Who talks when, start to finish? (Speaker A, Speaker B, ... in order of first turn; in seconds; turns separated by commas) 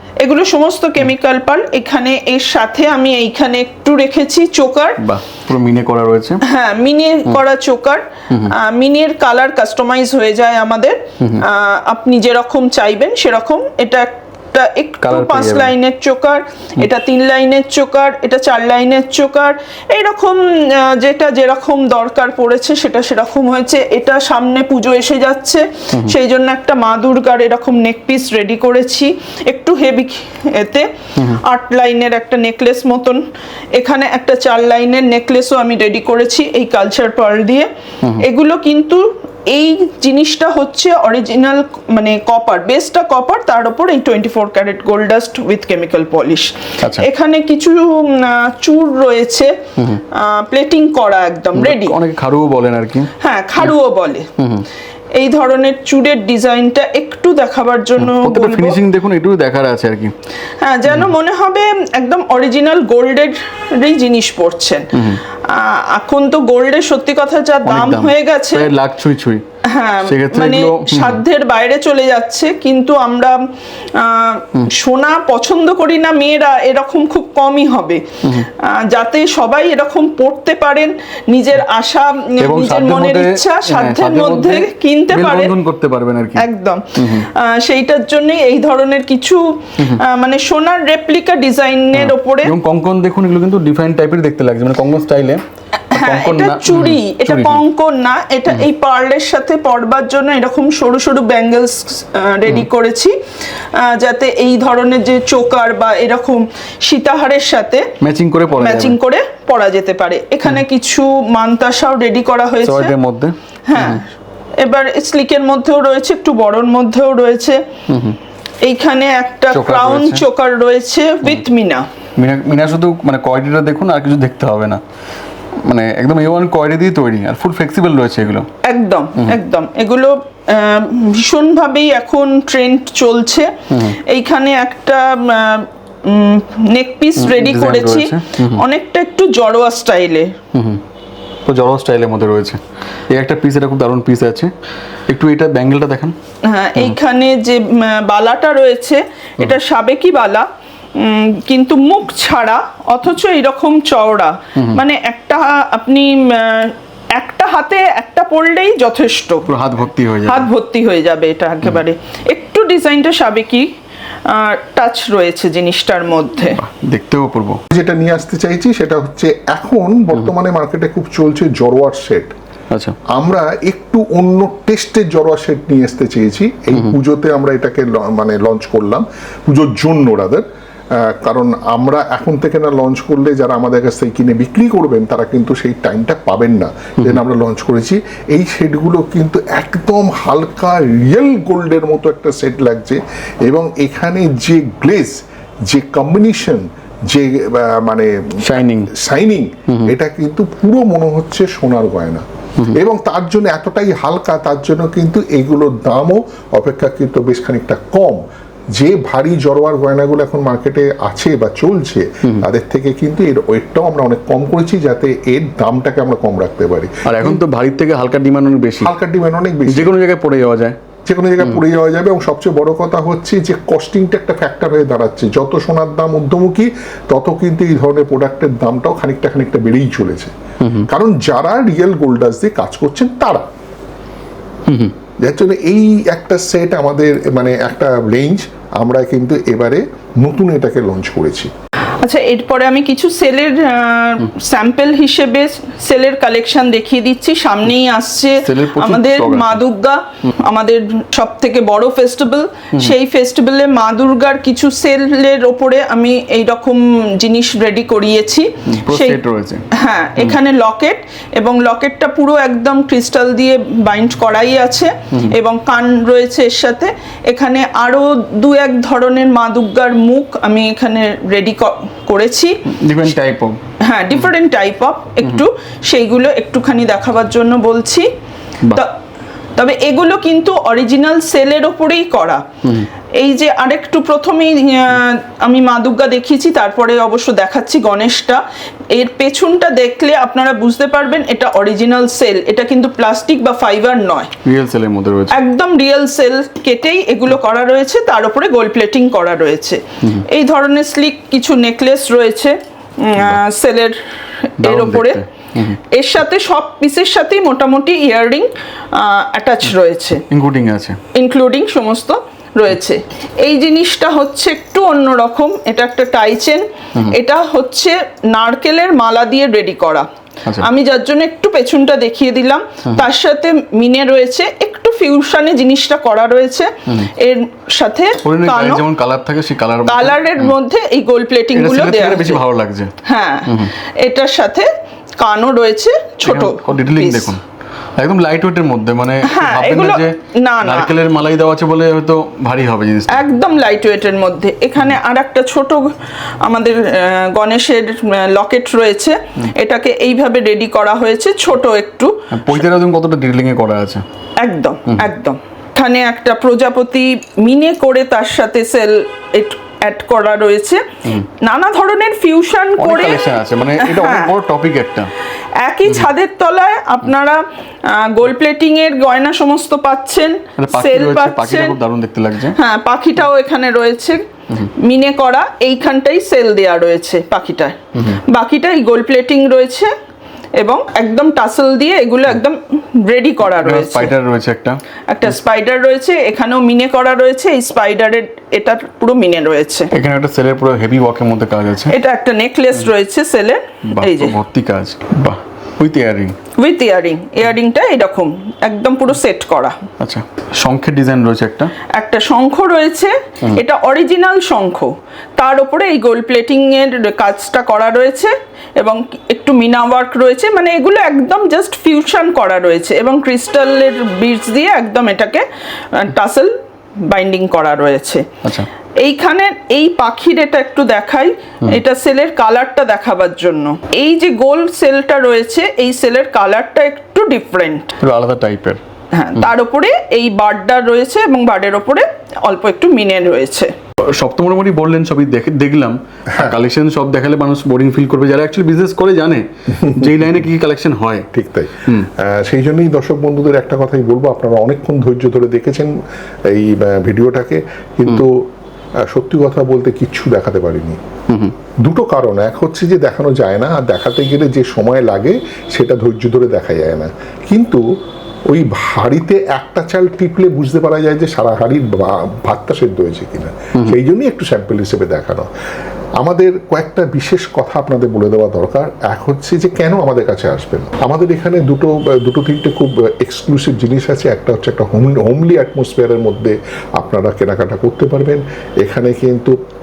Speaker A: 0.2-5.0, Speaker B: 5.0-6.4, Speaker A: 6.4-30.9, Speaker B: 15.0-15.7, Speaker A: 31.4-49.6, Speaker B: 46.8-47.1, Speaker A: 50.1-52.0, Speaker B: 51.5-53.1, Speaker A: 53.2-54.3, Speaker B: 54.4-54.6, Speaker A: 55.1-58.8, Speaker B: 58.0-60.1, Speaker A: 60.6-68.7, Speaker B: 64.9-65.2, Speaker B: 67.6-69.4, Speaker A: 69.6-85.5, Speaker B: 70.0-71.2, Speaker B: 82.4-87.3, Speaker A: 86.3-92.5, Speaker B: 91.9-95.4, Speaker A: 95.9-103.2, Speaker B: 95.9-97.6, Speaker A: 103.7-107.9, Speaker B: 108.0-109.0, Speaker A: 108.6-112.9, Speaker B: 112.6-114.0, Speaker A: 113.7-114.0, Speaker A: 114.6-117.6, Speaker B: 117.9-118.2, Speaker A: 118.6-121.9, Speaker B: 119.5-120.2, Speaker B: 122.2-124.8, Speaker B: 125.6-128.5, Speaker A: 128.6-140.3, Speaker B: 133.7-134.0, Speaker B: 137.2-138.6, Speaker B: 140.5-140.8, Speaker B: 141.4-142.6, Speaker B: 143.1-144.5, Speaker B: 145.1-146.1, Speaker A: 146.4-159.5, Speaker B: 159.5-160.5, Speaker A: 160.2-163.7, Speaker A: 164.3-166.6, Speaker B: 166.5-167.6, Speaker C: 167.7-172.3, Speaker B: 172.7-173.0, Speaker C: 173.1-208.2, Speaker B: 198.4-198.9, Speaker B: 199.7-199.9, Speaker C: 208.7-217.4, Speaker B: 217.1-218.9, Speaker C: 218.8-219.9, Speaker B: 219.7-220.8, Speaker C: 221.1-230.3, Speaker B: 230.6-230.9, Speaker C: 230.8-233.4, Speaker B: 234.7-234.9, Speaker C: 235.2-241.5, Speaker A: 242.0-259.2, Speaker B: 248.4-249.6, Speaker B: 258.7-259.6, Speaker A: 259.7-272.6, Speaker B: 272.7-273.6, Speaker A: 273.8-278.1, Speaker A: 279.6-282.5, Speaker A: 283.2-288.4, Speaker A: 288.9-294.3, Speaker B: 294.4-295.3, Speaker A: 295.3-304.0, Speaker A: 304.6-305.2, Speaker B: 304.6-305.8, Speaker A: 305.9-310.2, Speaker B: 310.3-311.0, Speaker A: 311.1-320.1, Speaker A: 320.6-328.8, Speaker B: 328.2-330.5, Speaker A: 329.9-332.4, Speaker B: 331.5-332.9, Speaker A: 333.0-337.3, Speaker B: 333.5-333.7, Speaker B: 336.2-337.4, Speaker B: 338.0-343.3, Speaker A: 339.2-340.9, Speaker A: 343.1-345.9, Speaker A: 346.4-352.6, Speaker B: 352.3-354.0, Speaker A: 354.4-360.9, Speaker A: 361.4-363.2, Speaker B: 362.8-365.1, Speaker A: 363.8-364.3, Speaker A: 365.6-371.8, Speaker B: 370.6-372.6, Speaker A: 372.5-374.2, Speaker A: 374.8-379.9, Speaker B: 377.9-378.2, Speaker A: 380.6-384.1, Speaker B: 383.4-384.8, Speaker A: 385.1-389.9, Speaker B: 389.9-391.9, Speaker A: 391.9-394.3, Speaker B: 393.9-396.4, Speaker A: 396.6-399.8, Speaker B: 400.0-401.7, Speaker A: 401.9-416.5, Speaker A: 417.0-418.3, Speaker B: 418.4-418.7, Speaker A: 419.0-428.0, Speaker B: 428.0-428.8, Speaker A: 429.1-433.7, Speaker B: 434.1-441.3, Speaker C: 441.3-445.9, Speaker C: 446.4-448.5, Speaker C: 449.0-451.0, Speaker C: 451.8-457.8, Speaker C: 458.5-465.5, Speaker C: 466.2-479.6